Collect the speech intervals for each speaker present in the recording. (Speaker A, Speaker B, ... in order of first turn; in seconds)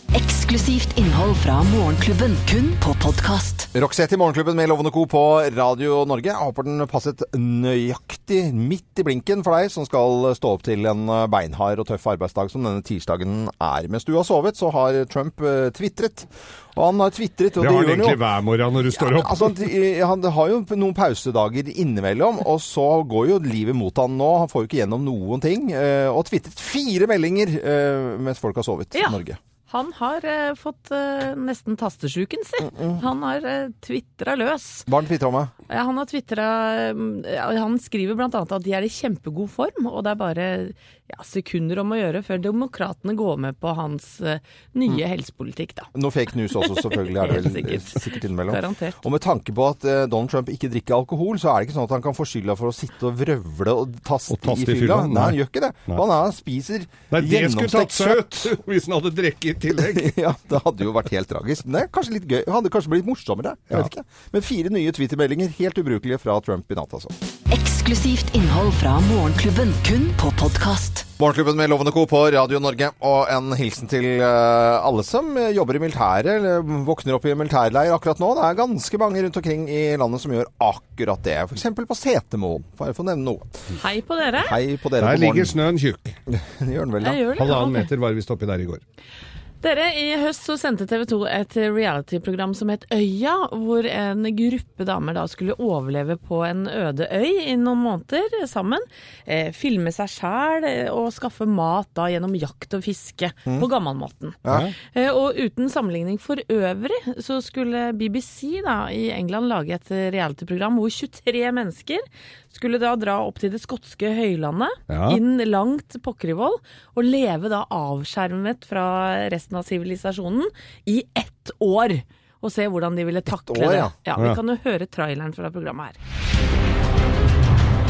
Speaker A: 0.1-3.7, 67.5-71.0
Speaker B: 3.7-18.2, 18.9-29.4, 32.6-33.0, 34.9-35.5, 45.9-58.6, 59.8-67.1, 71.2-83.6, 84.4-85.6, 86.3-87.5, 104.4-104.7, 123.3-123.9
Speaker C: 17.6-19.6, 54.3-56.0, 57.1-60.1, 85.0-86.2, 87.3-88.8, 104.5-104.7, 114.9-115.2
Speaker D: 28.9-34.9, 35.7-45.9, 46.6-49.0, 83.8-84.6, 87.0-87.9, 89.6-126.0